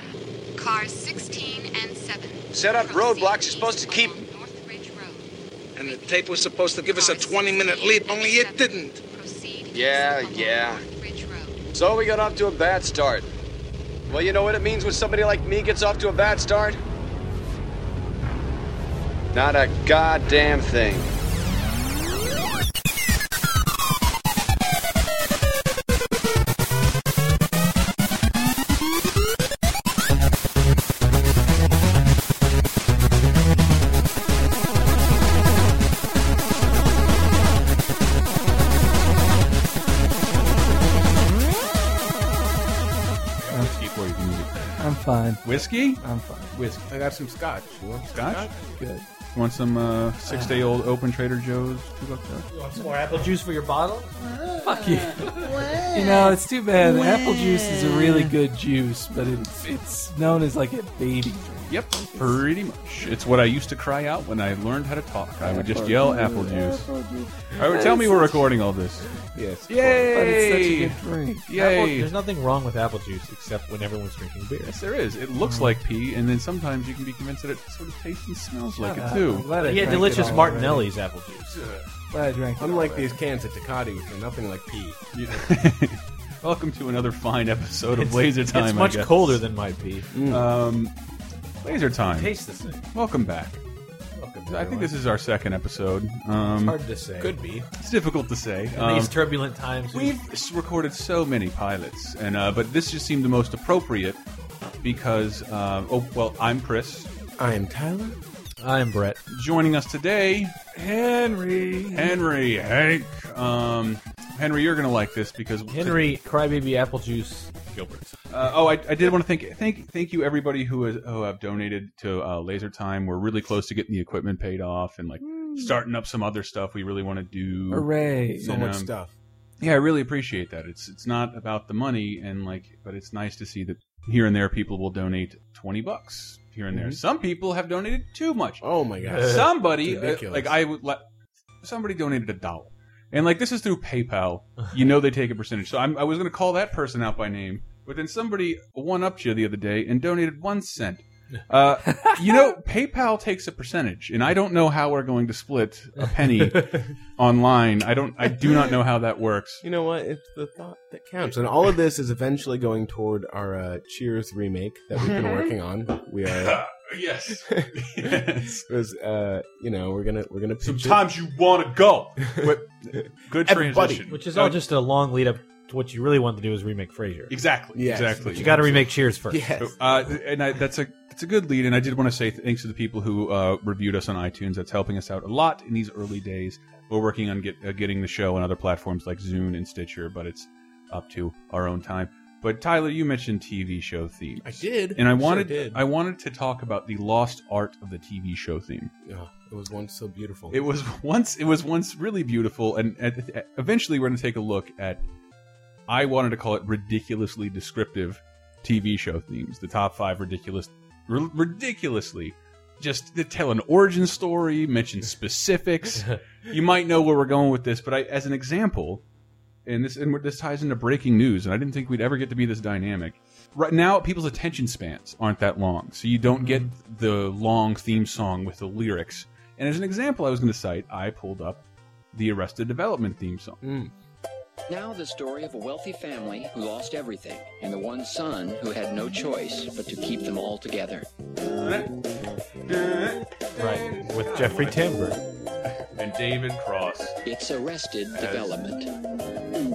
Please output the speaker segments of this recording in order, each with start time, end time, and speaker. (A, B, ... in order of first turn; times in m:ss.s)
0:00.6-0:06.2 A
0:02.5-0:04.2 B
0:05.8-0:09.0 C
0:06.8-0:11.6 A
0:09.7-0:10.8 B
0:11.8-0:13.3 B
0:14.1-0:16.8 B
0:19.3-0:21.1 B
0:43.4-0:44.7 D
0:44.8-0:45.4 E
0:45.4-0:46.9 D
0:46.0-0:46.5 E
0:46.9-0:48.5 F
0:48.1-0:48.5 D
0:48.8-0:49.1 E
0:49.3-0:52.5 D
0:50.3-0:50.6 E
0:52.5-0:54.1 G
0:54.6-1:02.4 E
0:54.7-0:55.3 D
0:57.9-0:58.3 D
1:01.7-1:06.8 D
1:05.4-1:06.3 F
1:05.7-1:08.5 E
1:07.5-1:09.1 D
1:09.3-1:10.1 F
1:09.7-1:11.0 D
1:10.1-1:11.5 E
1:11.5-1:12.1 D
1:11.6-1:14.8 G
1:14.7-1:20.3 D
1:15.4-1:15.8 E
1:18.7-1:20.9 E
1:19.6-1:21.6 G
1:21.5-1:21.9 D
1:22.1-1:23.2 E
1:22.6-1:25.0 F
1:25.1-1:29.4 D
1:27.9-1:30.1 G
1:30.1-1:30.5 F
1:30.3-1:30.9 D
1:31.6-1:32.3 D
1:32.1-1:32.8 G
1:32.9-1:33.6 D
1:34.2-1:34.6 F
1:34.2-1:34.9 G
1:34.5-1:36.8 D
1:36.4-1:37.4 G
1:37.2-1:37.7 F
1:37.8-1:39.1 D
1:38.7-1:40.2 G
1:39.9-1:44.2 D
1:44.8-1:47.1 D
1:47.4-1:48.2 F
1:48.6-1:49.2 G
1:49.3-1:50.6 D
1:50.7-1:52.2 E
1:51.9-1:56.0 D
1:55.7-1:58.2 G
1:58.3-2:08.9 D
2:05.2-2:05.7 E
2:07.7-2:08.5 E
2:08.4-2:09.1 F
2:09.6-2:18.6 D
2:16.7-2:17.0 F
2:18.6-2:20.6 F
2:19.1-2:19.4 G
2:19.2-2:21.0 D
2:21.6-2:39.6 D
2:31.9-2:32.2 E
2:39.6-2:46.6 F
2:46.3-2:48.7 D
2:47.5-2:51.1 F
2:50.6-2:54.6 D
2:52.3-2:52.6 F
2:53.3-2:54.1 F
2:54.1-2:57.4 G
2:57.3-2:58.7 D
2:57.7-3:00.0 F
2:58.2-2:59.4 G
2:59.6-3:18.9 D
3:14.4-3:15.9 F
3:19.0-3:20.6 F
3:20.5-3:25.0 D
3:25.9-3:39.0 D
3:39.7-3:53.6 D
3:46.3-3:46.7 E
3:53.6-3:53.9 F
3:54.7-4:01.1 H
4:01.4-4:01.9 D
4:02.6-4:05.0 D
4:03.6-4:05.2 G
4:05.9-4:07.2 D
4:07.2-4:08.9 H
4:08.1-4:08.7 D